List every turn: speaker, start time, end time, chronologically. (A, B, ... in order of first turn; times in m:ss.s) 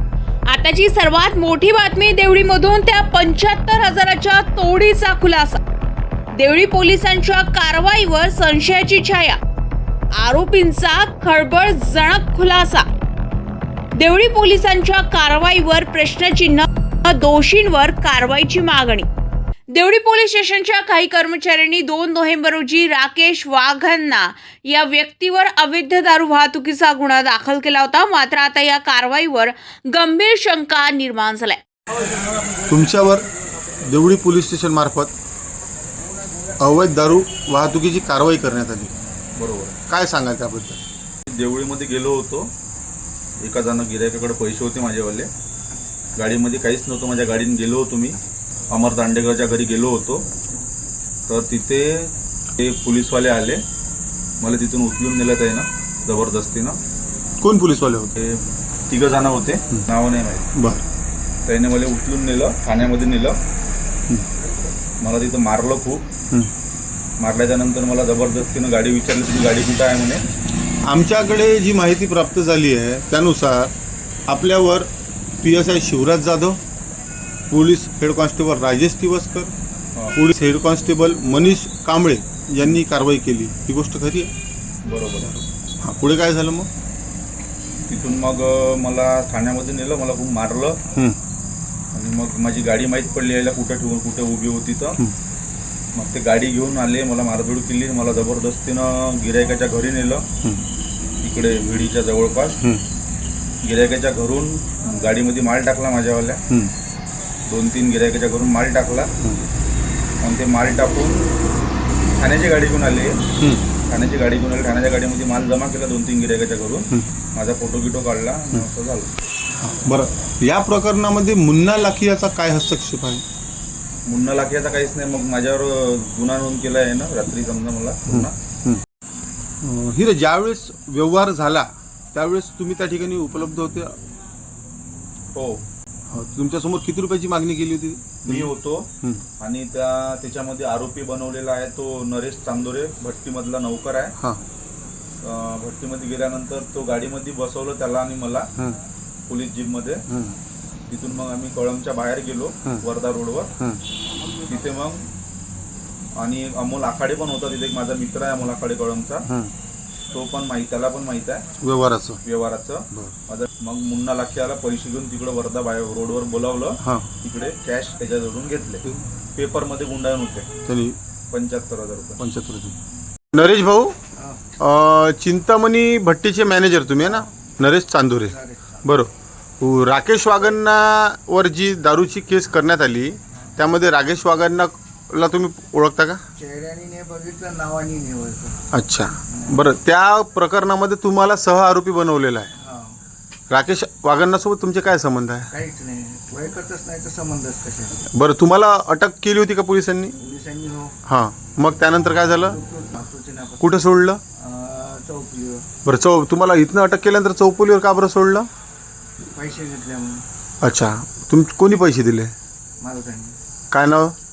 0:00.5-0:05.6 A
0:06.3-0:09.4 A
0:10.1-0:12.9 A
0:14.0-0:19.1 A
0:19.7-0:31.6 A
0:32.7-0:33.2 B
0:33.9-0:35.1 B
0:36.6-0:38.9 B
0:39.4-0:39.8 C
0:39.9-0:40.8 B
0:41.3-0:42.5 C
0:43.4-0:45.3 C
0:46.1-0:48.2 C
0:48.7-0:50.3 C
0:51.3-0:53.6 C
0:54.4-0:56.8 C
0:57.4-0:58.1 B
0:58.2-1:00.5 C
1:00.6-1:00.8 B
1:01.4-1:03.4 C
1:05.0-1:06.0 C
1:07.2-1:10.2 C
1:10.8-1:13.7 B
1:14.3-1:14.9 B
1:15.4-1:16.6 B
1:17.5-1:19.5 B
1:20.1-1:24.3 B
1:24.8-1:25.3 C
1:25.2-1:26.7 B
1:27.9-1:30.8 C
1:31.9-1:35.0 C
1:35.9-1:40.2 C
1:41.2-1:42.6 C
1:43.6-1:46.4 C
1:47.5-1:49.1 C
1:50.2-1:51.3 C
1:52.2-1:53.2 C
1:53.4-1:53.6 B
1:53.9-1:59.1 C
1:59.6-2:03.2 B
2:04.0-2:08.3 C
2:08.1-2:08.8 B
2:09.6-2:14.0 B
2:15.3-2:15.6 C
2:16.1-2:19.2 B
2:18.2-2:18.9 C
2:19.4-2:24.2 C
2:25.2-2:28.5 C
2:29.3-2:30.1 C
2:30.1-2:30.4 B
2:30.9-2:33.5 C
2:34.4-2:35.1 C
2:36.2-2:39.3 C
2:39.3-2:39.5 B
2:40.1-2:41.4 C
2:41.6-2:42.2 B
2:42.2-2:50.5 C
2:46.8-2:47.1 B
2:50.6-2:51.0 B
2:51.3-2:52.2 C
2:52.2-2:52.7 B
2:53.3-2:54.0 B
2:54.2-2:54.5 D
2:54.6-3:06.2 B
2:58.1-2:58.9 D
3:06.4-3:08.6 D
3:08.7-3:12.5 B
3:09.3-3:09.6 D
3:12.5-3:13.0 D
3:13.5-3:15.5 B
3:15.5-3:18.0 D
3:18.1-3:20.2 B
3:20.2-3:20.9 D
3:21.0-3:22.6 B
3:22.5-3:23.8 D
3:23.6-3:24.2 B
3:24.4-3:25.7 D
3:25.8-3:28.5 B
3:29.3-3:30.2 D
3:30.6-3:32.3 B
3:32.8-3:33.4 D
3:33.7-3:34.1 B